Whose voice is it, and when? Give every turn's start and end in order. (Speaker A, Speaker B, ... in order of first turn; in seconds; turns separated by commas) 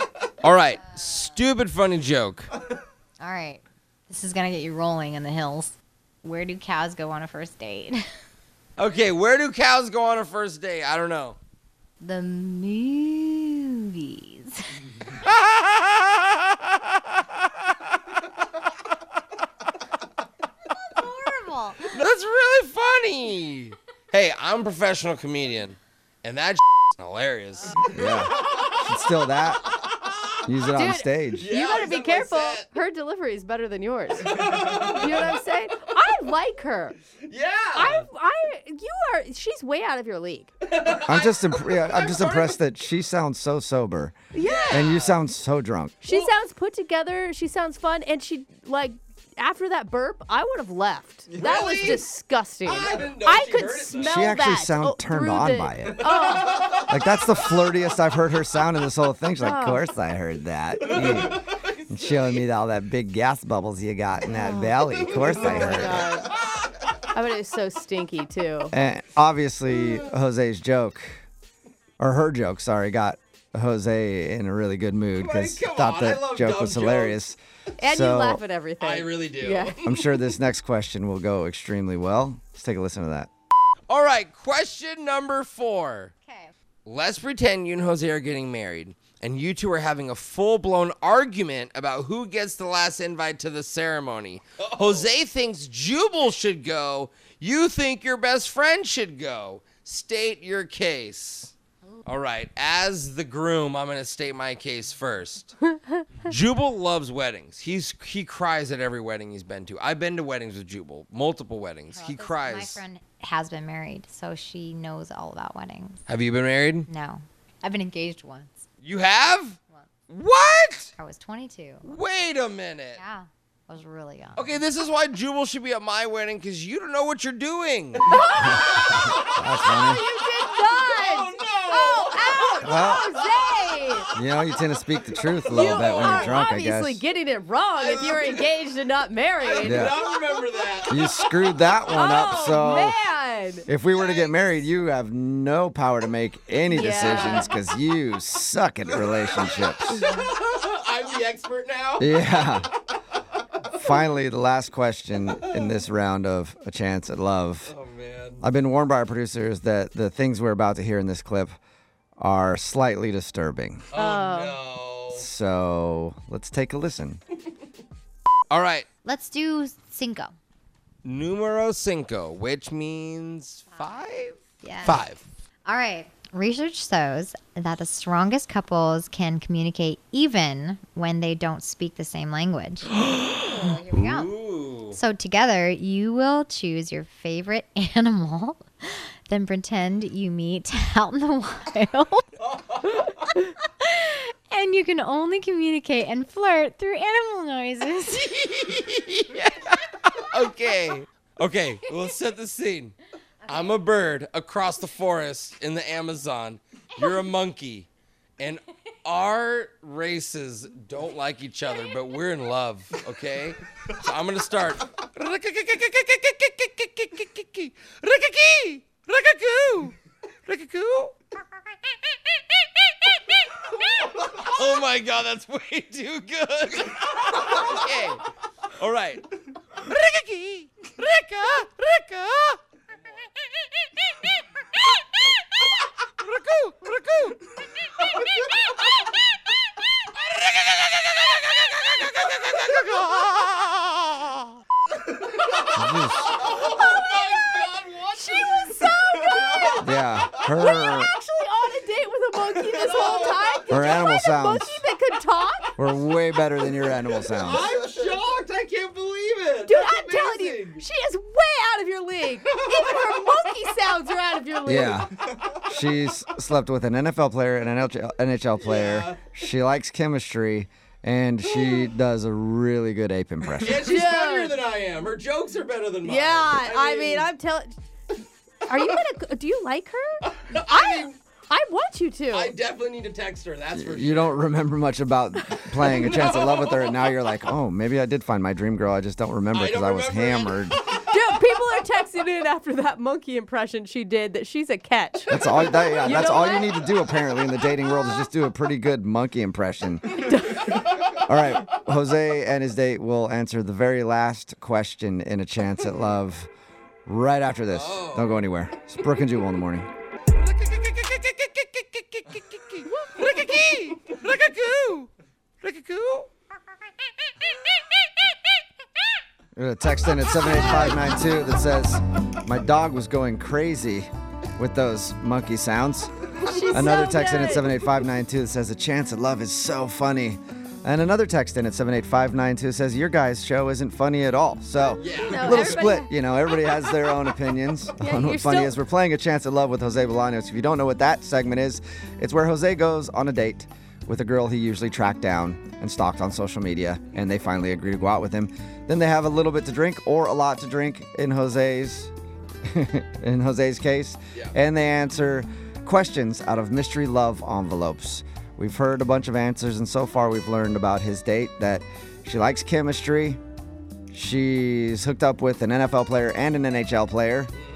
Speaker A: 0.4-2.5, Speaker B: 1.0-1.3, Speaker B: 3.2-8.0, Speaker A: 8.8-11.4, Speaker B: 12.0-14.6, Speaker A: 15.2-17.0, Speaker B: 20.9-22.0, Speaker A: 21.9-27.9, Speaker C: 27.9-29.6, Speaker C: 30.4-31.5, Speaker D: 30.7-37.0, Speaker E: 31.3-32.7, Speaker E: 34.2-35.3, Speaker E: 37.1-38.1, Speaker D: 37.7-40.5, Speaker E: 40.6-42.6, Speaker C: 41.0-44.2, Speaker D: 44.3-44.9, Speaker E: 44.4-45.2, Speaker C: 44.7-46.0, Speaker D: 46.0-56.7, Speaker E: 51.3-52.1, Speaker E: 52.6-54.3, Speaker C: 54.0-56.1, Speaker E: 56.1-56.8, Speaker C: 56.9-66.1, Speaker D: 59.4-59.9, Speaker E: 60.8-62.4, Speaker D: 64.3-66.3, Speaker D: 67.0-68.7, Speaker C: 68.7-71.2, Speaker C: 72.0-78.4, Speaker E: 75.1-77.3, Speaker D: 77.8-79.8, Speaker E: 78.8-80.0, Speaker C: 79.8-83.3, Speaker A: 83.9-86.1, Speaker B: 86.2-86.5, Speaker A: 86.8-101.5, Speaker E: 94.6-95.1, Speaker A: 102.0-105.5, Speaker A: 106.2-112.8, Speaker B: 111.9-116.0, Speaker A: 116.1-116.9, Speaker B: 116.9-118.6, Speaker A: 118.8-120.9, Speaker B: 121.0-121.9, Speaker A: 121.8-123.0, Speaker B: 123.0-124.6, Speaker A: 124.3-128.1, Speaker D: 128.1-134.1, Speaker C: 128.4-130.0, Speaker E: 128.9-129.4, Speaker E: 130.1-134.0, Speaker C: 132.6-133.1, Speaker C: 134.1-137.0, Speaker E: 135.4-136.4, Speaker D: 135.5-139.9, Speaker E: 137.8-138.7, Speaker E: 139.4-141.0, Speaker C: 139.6-140.0, Speaker C: 140.9-143.0, Speaker D: 141.9-143.7, Speaker C: 143.7-150.0, Speaker E: 143.9-144.3, Speaker D: 146.7-147.5, Speaker E: 149.2-152.7, Speaker C: 152.0-152.7, Speaker C: 153.7-157.7, Speaker E: 157.7-158.4, Speaker A: 157.8-158.2, Speaker C: 158.4-161.6, Speaker C: 162.2-163.9, Speaker E: 163.9-165.3, Speaker D: 163.9-164.6, Speaker C: 165.1-167.2, Speaker A: 168.5-168.9, Speaker B: 169.0-170.3, Speaker A: 171.0-175.2, Speaker B: 173.7-175.0, Speaker B: 175.7-184.3, Speaker A: 183.0-185.0, Speaker B: 184.9-192.2, Speaker B: 192.8-198.5, Speaker A: 198.3-202.9, Speaker B: 203.4-203.8, Speaker A: 203.5-207.9, Speaker A: 208.4-219.9, Speaker A: 220.4-221.2, Speaker A: 222.3-228.2, Speaker A: 228.8-232.6, Speaker A: 233.4-234.4, Speaker A: 234.9-235.4, Speaker A: 236.0-237.5, Speaker A: 240.1-244.4, Speaker E: 245.5-248.7, Speaker C: 245.7-246.3, Speaker D: 246.3-249.9, Speaker C: 249.8-251.1, Speaker D: 250.5-255.8, Speaker E: 252.6-254.1, Speaker C: 253.7-254.8, Speaker C: 255.8-257.7, Speaker E: 257.4-260.9, Speaker D: 259.6-265.0, Speaker E: 262.6-262.9, Speaker C: 264.6-274.0, Speaker E: 268.6-269.4, Speaker E: 273.6-277.3, Speaker D: 273.8-274.6, Speaker D: 276.0-277.8, Speaker D: 278.7-282.6, Speaker E: 280.2-281.2, Speaker E: 282.3-284.3, Speaker C: 283.7-290.8, Speaker D: 285.9-286.2, Speaker E: 286.2-286.9, Speaker E: 289.5-290.6, Speaker D: 291.0-296.9, Speaker C: 295.3-300.3, Speaker D: 300.2-300.8, Speaker C: 301.1-306.5, Speaker C: 307.1-309.9, Speaker E: 307.7-308.3, Speaker A: 310.4-315.1, Speaker A: 315.6-316.3, Speaker C: 319.5-326.1, Speaker D: 326.4-327.8, Speaker C: 326.7-352.1, Speaker E: 335.0-335.9, Speaker D: 335.2-336.1, Speaker D: 338.0-338.8, Speaker C: 352.6-363.4, Speaker C: 364.1-367.5